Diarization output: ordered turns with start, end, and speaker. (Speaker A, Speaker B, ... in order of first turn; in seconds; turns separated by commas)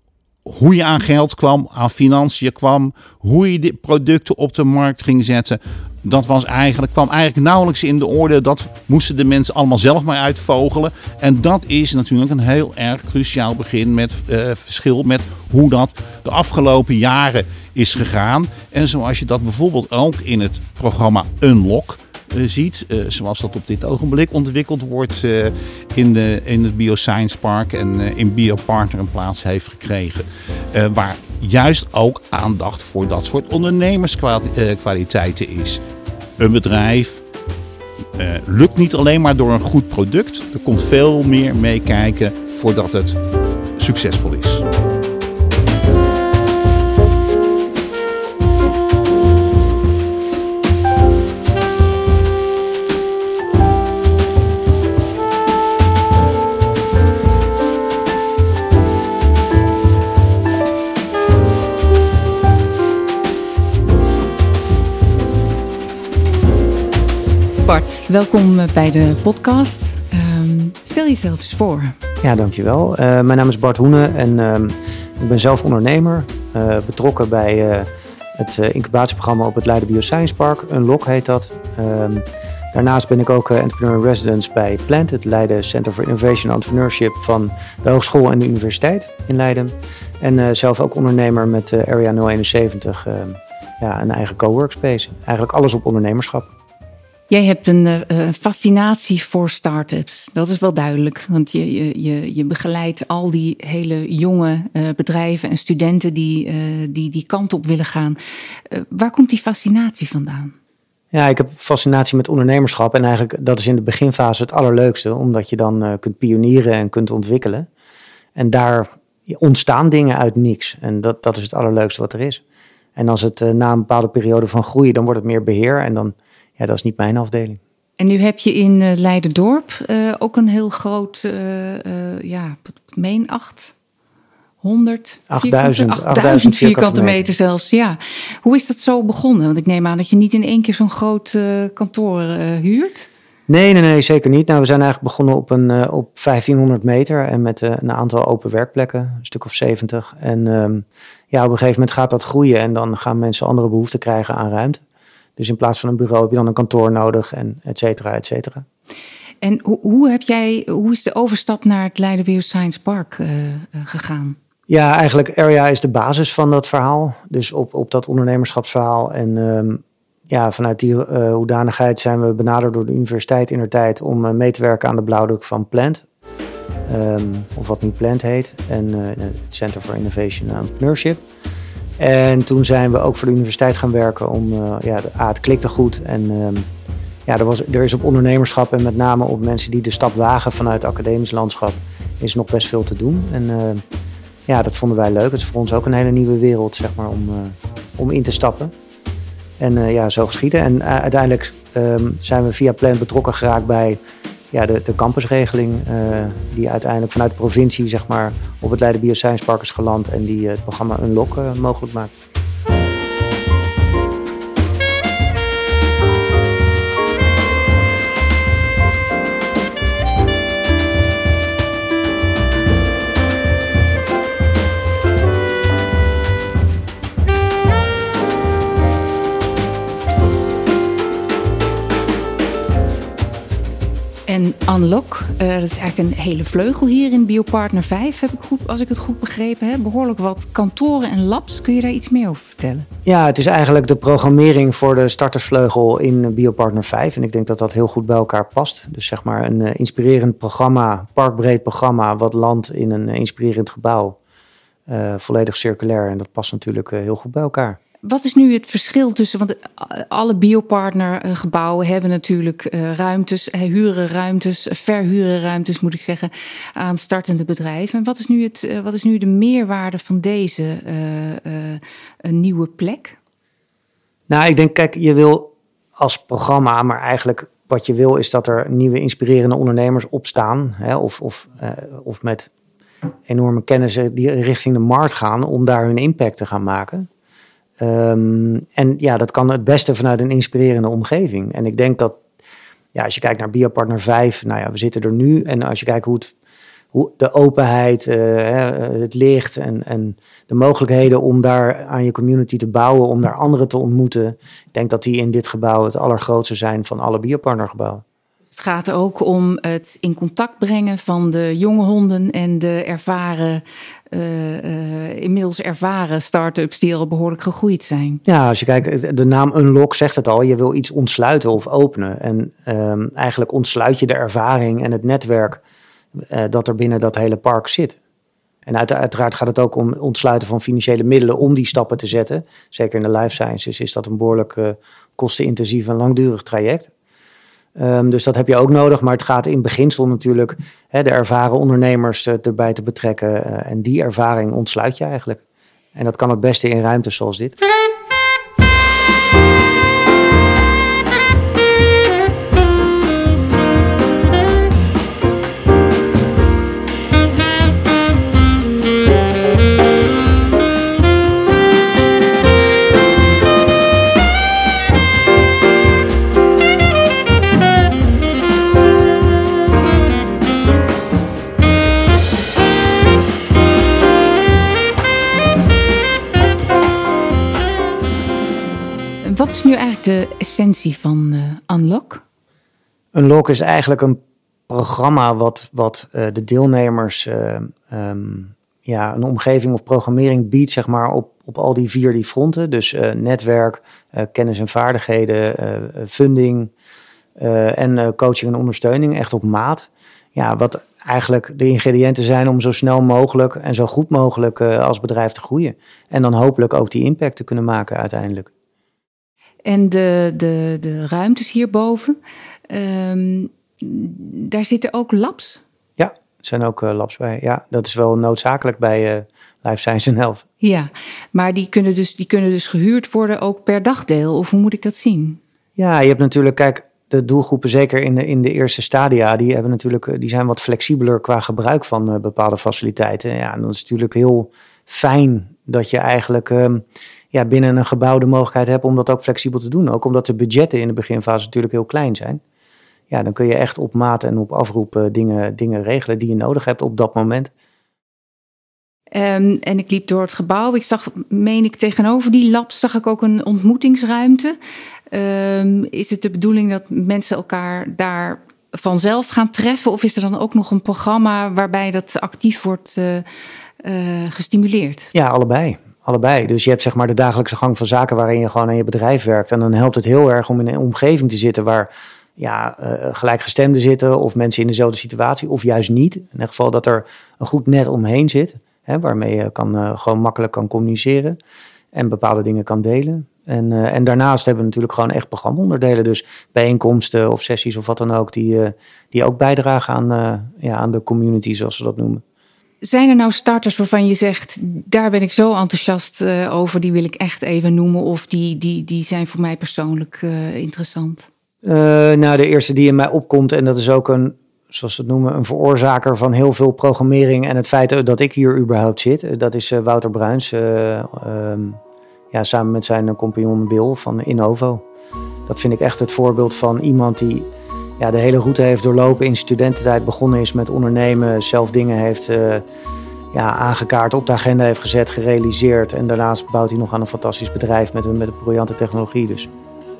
Speaker A: 0.4-35.8, Speaker A: 36.4-37.2, Speaker A: 38.2-43.2, Speaker A: 43.8-44.6, Speaker B: 67.6-71.9, Speaker C: 72.2-96.5, Speaker B: 97.3-108.2, Speaker B: 108.7-110.5, Speaker C: 111.1-117.7, Speaker C: 118.3-122.4, Speaker C: 123.0-127.6, Speaker B: 128.0-133.7, Speaker B: 134.6-143.1, Speaker C: 135.3-137.3, Speaker C: 143.5-154.8, Speaker C: 155.4-158.6, Speaker B: 159.4-164.3, Speaker C: 164.7-176.0, Speaker C: 176.9-181.2, Speaker C: 182.0-186.7, Speaker C: 187.2-193.8, Speaker C: 194.5-198.7, Speaker C: 199.6-204.0, Speaker C: 204.5-212.1, Speaker B: 234.3-242.8, Speaker C: 243.1-254.2, Speaker C: 254.9-257.8, Speaker B: 258.1-273.2, Speaker C: 274.3-282.5, Speaker C: 283.3-287.1, Speaker C: 287.8-292.1, Speaker C: 292.9-296.3, Speaker C: 296.9-308.0, Speaker B: 308.5-318.2, Speaker C: 318.2-325.6, Speaker C: 326.3-328.0, Speaker C: 328.6-336.9, Speaker C: 337.8-345.4, Speaker C: 345.9-347.6, Speaker B: 379.3-382.2, Speaker C: 383.1-384.2, Speaker C: 384.7-396.7, Speaker C: 397.4-408.5, Speaker B: 409.6-412.1, Speaker B: 412.7-415.6, Speaker C: 416.0-420.4, Speaker B: 420.6-425.4, Speaker C: 425.8-442.4, Speaker C: 443.1-447.5, Speaker B: 449.1-454.6, Speaker B: 455.1-463.2, Speaker B: 463.8-465.1, Speaker C: 465.1-481.4, Speaker C: 481.9-492.2, Speaker B: 492.8-501.3, Speaker C: 501.6-511.8, Speaker C: 512.3-514.8, Speaker C: 515.5-517.5, Speaker C: 518.0-522.6, Speaker C: 523.3-529.5